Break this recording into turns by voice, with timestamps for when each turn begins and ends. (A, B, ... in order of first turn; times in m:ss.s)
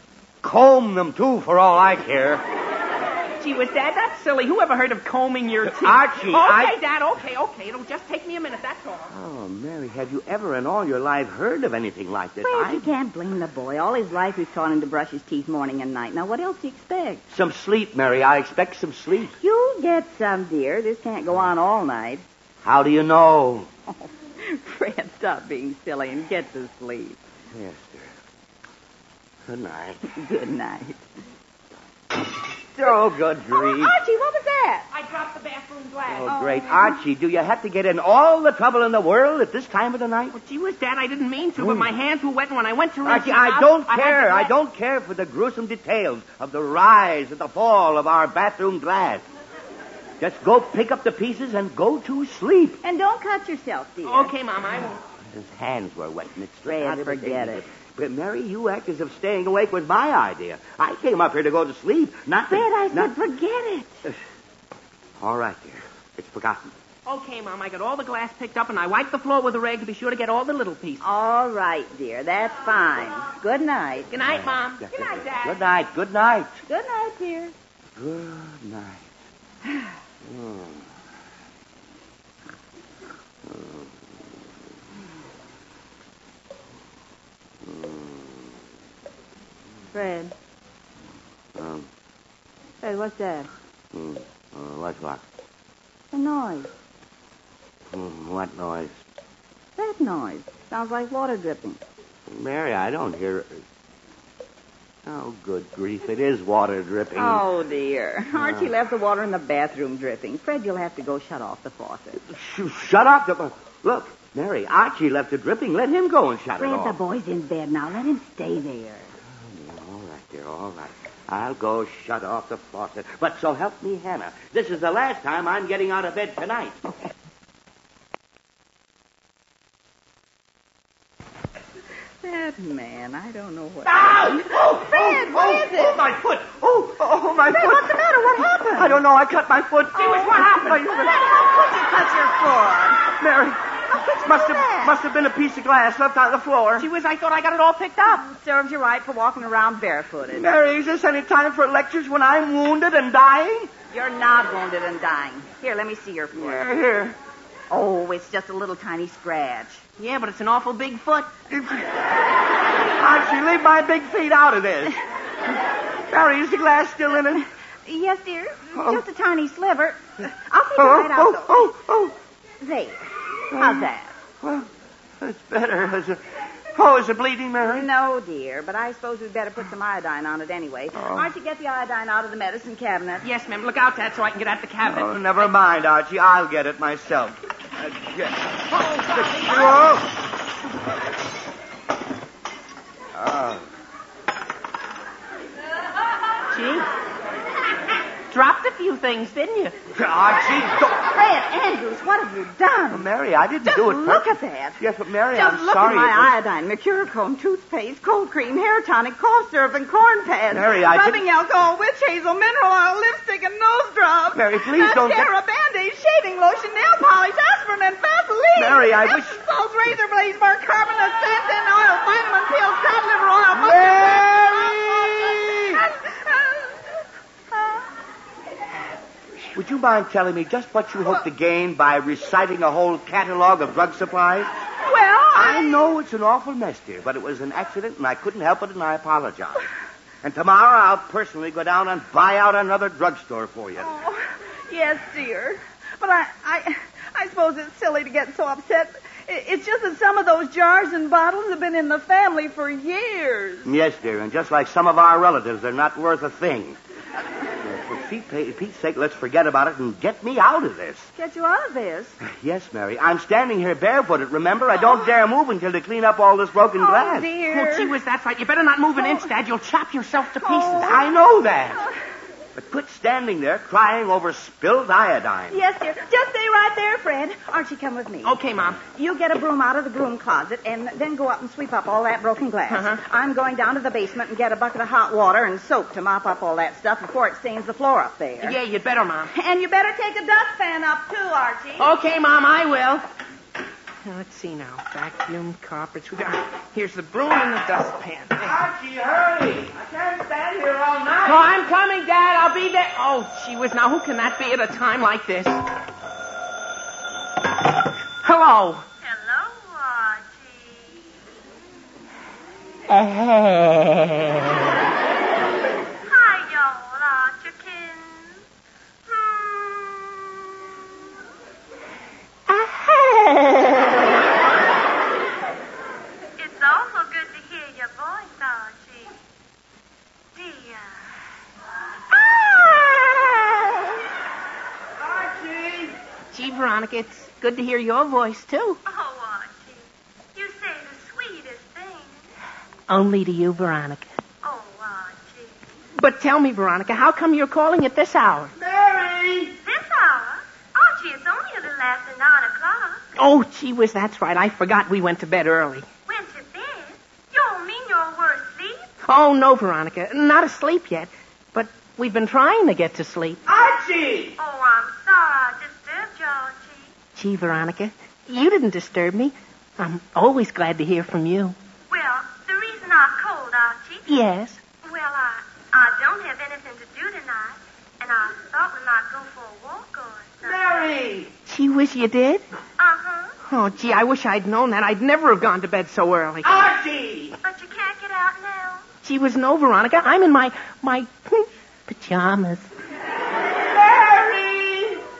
0:00.4-0:02.4 A
0:03.4-0:09.1 B
0:05.7-0:06.8 A
0:09.1-0:12.9 A
0:12.4-0:17.2 C
0:17.3-0:19.3 A
0:19.4-0:22.2 C
0:22.6-0:23.7 A
0:23.9-0:27.2 C
0:27.5-0:28.1 A
0:29.4-0:30.0 A
0:30.0-0:31.0 C
0:32.6-0:33.9 A
0:33.5-0:34.8 C
0:34.9-0:36.4 B
0:36.1-0:40.3 A
0:36.3-0:37.0 C
0:40.3-0:44.5 B
0:41.6-0:41.9 A
0:43.0-0:49.2 A
0:50.2-0:52.8 A
0:52.8-0:54.3 C
0:54.0-0:55.0 B
0:55.2-1:03.1 A
0:56.6-0:57.6 C
1:02.5-1:04.0 C
1:05.2-1:06.7 A
1:07.0-1:11.0 B
1:11.0-1:14.1 C
1:14.1-1:15.6 B
1:14.3-1:16.6 A
1:16.7-1:17.5 C
1:18.0-1:19.1 A
1:20.2-1:20.9 A
1:23.4-1:24.1 A
1:27.6-1:28.5 A
1:29.9-1:30.3 C
1:31.6-1:31.9 A
1:32.8-1:33.5 C
1:33.9-1:35.2 A
1:36.1-1:36.7 C
1:37.9-1:39.0 A
1:39.8-1:41.8 C
1:42.3-1:43.6 A
1:45.0-1:47.4 A
1:47.1-1:52.2 C
1:48.4-1:48.7 A
1:52.2-1:57.0 A
1:56.6-1:59.1 C
1:59.3-2:06.8 A
2:12.2-2:16.0 C
2:14.0-2:17.9 A
2:17.4-2:19.0 C
2:18.7-2:21.2 A
2:19.9-2:20.8 B
2:20.9-2:23.0 C
2:23.0-2:23.6 A
2:23.9-2:24.9 C
2:24.2-2:26.9 A
2:26.8-2:28.3 B
2:28.2-2:30.5 C
2:30.3-2:33.7 A
2:33.9-2:36.6 C
2:36.3-2:37.2 A
2:37.7-2:39.8 C
2:40.0-2:41.3 B
2:41.5-2:41.8 A
2:43.0-2:44.9 A
2:46.1-2:47.4 A
2:47.4-2:51.7 C
2:48.7-2:49.0 A
2:50.8-2:52.1 A
2:52.6-2:54.2 C
2:53.5-2:53.9 A
2:54.4-2:54.7 A
2:55.2-2:56.2 A
2:56.7-2:57.9 A
2:57.6-3:03.2 C
3:00.9-3:01.3 A
3:03.2-3:05.2 B
3:04.9-3:10.1 A
3:08.8-3:09.6 B
3:13.1-3:13.6 A
3:16.5-3:16.9 B
3:18.3-3:19.7 B
3:19.9-3:21.1 A
3:21.0-3:23.1 C
3:22.9-3:26.4 A
3:23.6-3:24.8 C
3:25.3-3:46.9 C
3:30.5-3:31.2 A
3:34.3-3:35.3 A
3:38.6-3:39.4 A
3:43.5-3:45.8 A
3:47.5-3:47.8 C
3:49.5-3:54.5 A
3:54.8-3:55.9 C
3:55.3-3:59.6 A
4:00.2-4:03.9 A
4:03.8-4:13.7 C
4:13.6-4:16.8 A
4:17.6-4:21.1 A
4:21.2-4:22.2 C
4:22.2-4:27.3 A
4:24.8-4:25.1 C
4:26.7-4:27.9 C
4:27.4-4:31.0 B
4:29.0-4:29.2 C
4:30.4-4:31.1 C
4:30.8-4:31.8 A
4:31.7-4:31.9 C
4:32.5-4:35.6 A
4:35.5-4:38.3 C
4:38.2-4:38.8 B
4:38.8-4:48.6 C
4:42.7-4:43.0 B
4:48.4-4:49.3 B
4:49.3-4:51.9 C
4:51.8-4:53.0 B
4:54.0-4:58.5 B
4:58.4-5:01.5 A
5:01.2-5:05.6 B
5:08.2-5:08.8 B
5:09.0-5:11.0 D
5:12.9-5:14.0 B
5:16.0-5:18.4 D
5:19.1-5:20.1 D
5:22.5-5:23.8 B
5:26.4-5:29.2 D
5:30.3-5:30.9 D
5:32.2-5:33.2 B
5:35.0-5:35.9 A
5:36.3-5:38.8 B
5:38.8-5:39.8 D
5:40.3-5:42.2 D
5:42.9-5:44.1 B
5:44.4-5:45.6 D
5:46.0-5:48.5 B
5:48.6-5:49.5 A
5:49.6-5:53.0 D
5:53.2-5:55.9 B
5:56.1-5:58.8 D
5:59.0-6:03.4 B
6:03.4-6:04.4 A
6:04.4-6:06.9 D
6:07.2-6:11.6 B
6:11.9-6:14.1 D
6:14.1-6:14.6 B
6:14.7-6:20.8 D
6:20.4-6:21.3 A
6:21.4-6:22.4 B
6:22.8-6:23.4 D
6:23.4-6:26.6 B
6:26.4-6:27.3 A
6:27.4-6:28.8 D
6:29.0-6:32.7 B
6:33.7-6:35.0 A